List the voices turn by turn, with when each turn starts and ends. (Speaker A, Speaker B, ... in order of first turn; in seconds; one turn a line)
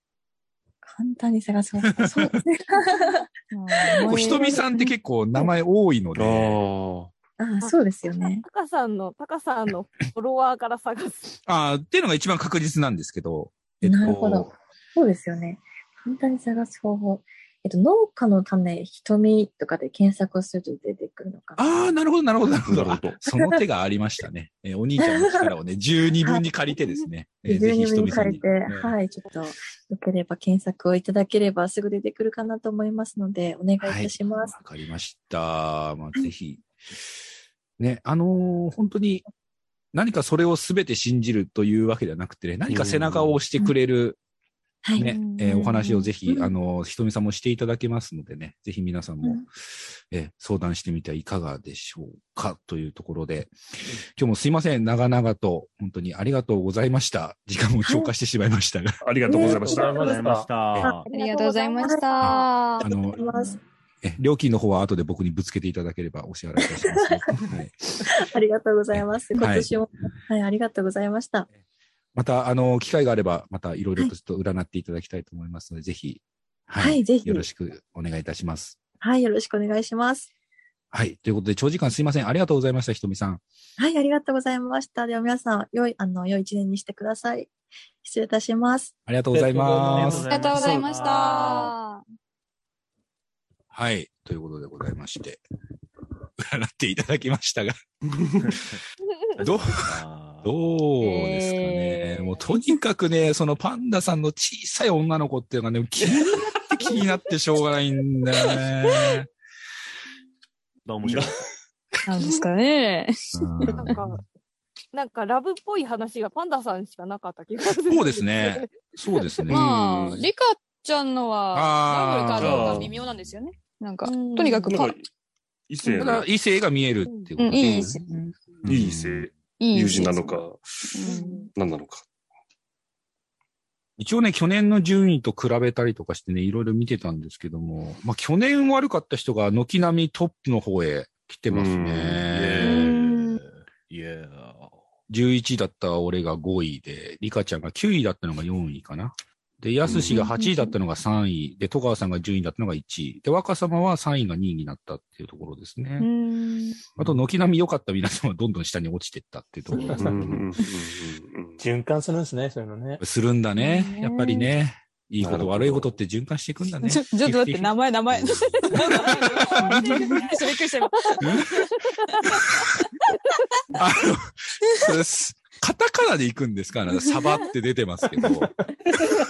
Speaker A: 0.8-3.2
Speaker B: 1.8-2.4
Speaker C: 3.5-4.7
Speaker A: 3.8-4.4
Speaker B: 4.0-6.6
Speaker D: 6.1-7.1
Speaker A: 7.4-8.4
Speaker E: 8.4-11.3
Speaker B: 11.5-14.5
Speaker A: 13.8-21.9
Speaker D: 14.0-14.4
Speaker B: 21.6-28.9
Speaker D: 22.7-23.2
Speaker A: 25.0-25.5
Speaker A: 27.5-34.5
Speaker B: 33.8-36.7
Speaker B: 37.8-39.2
Speaker B: 39.9-44.2
Speaker D: 42.7-43.4
Speaker A: 44.8-45.2
Speaker B: 45.0-53.5
Speaker C: 45.0-46.1
Speaker B: 54.2-59.0
Speaker A: 57.8-58.1
Speaker D: 59.0-60.2
Speaker A: 59.3-59.6
Speaker F: 59.3-60.5
Speaker G: 59.7-61.0
Speaker A: 60.8-63.6
Speaker C: 61.1-62.9
Speaker B: 62.2-63.2
Speaker B: 64.0-67.7
Speaker A: 66.9-67.2
Speaker A: 68.1-71.5
Speaker B: 68.9-69.7
Speaker B: 72.2-78.8
Speaker A: 76.8-77.5
Speaker A: 79.0-80.3
Speaker B: 80.9-83.4
Speaker A: 83.8-87.5
Speaker A: 88.0-88.9
Speaker B: 89.1-90.3
Speaker F: 89.3-90.9
Speaker G: 89.9-91.7
Speaker C: 90.3-92.0
Speaker B: 93.7-95.4
Speaker B: 96.4-97.8
Speaker G: 98.4-98.8
Speaker G: 99.4-100.5
Speaker B: 99.4-109.3
Speaker C: 101.0-102.7
Speaker G: 110.8-111.4
Speaker D: 111.0-111.4
Speaker C: 112.1-113.4
Speaker B: 113.3-114.1
Speaker E: 113.7-114.2
Speaker E: 114.9-119.5
Speaker B: 117.8-119.7
Speaker C: 119.5-125.0
Speaker D: 119.5-120.2
Speaker B: 121.5-123.0
Speaker D: 122.4-122.9
Speaker E: 124.0-124.7
Speaker D: 124.7-125.0
Speaker D: 125.7-126.3
Speaker B: 125.9-129.3
Speaker E: 127.0-127.3
Speaker C: 127.4-128.0
Speaker D: 128.7-130.8
Speaker C: 129.6-131.5
Speaker E: 131.0-131.5
Speaker D: 131.5-132.0
Speaker B: 134.0-142.8
Speaker D: 141.5-142.9
Speaker G: 142.3-144.7
Speaker C: 142.6-143.4
Speaker B: 145.1-156.1
Speaker D: 149.8-150.2
Speaker C: 150.1-150.7
Speaker C: 156.0-156.9
Speaker B: 157.0-160.5
Speaker D: 159.8-161.6
Speaker F: 161.6-163.0
Speaker B: 163.0-170.2
Speaker C: 163.6-164.5
Speaker D: 165.2-165.9
Speaker C: 166.8-172.4
Speaker E: 169.5-170.2
Speaker B: 171.2-171.6
Speaker B: 173.7-178.5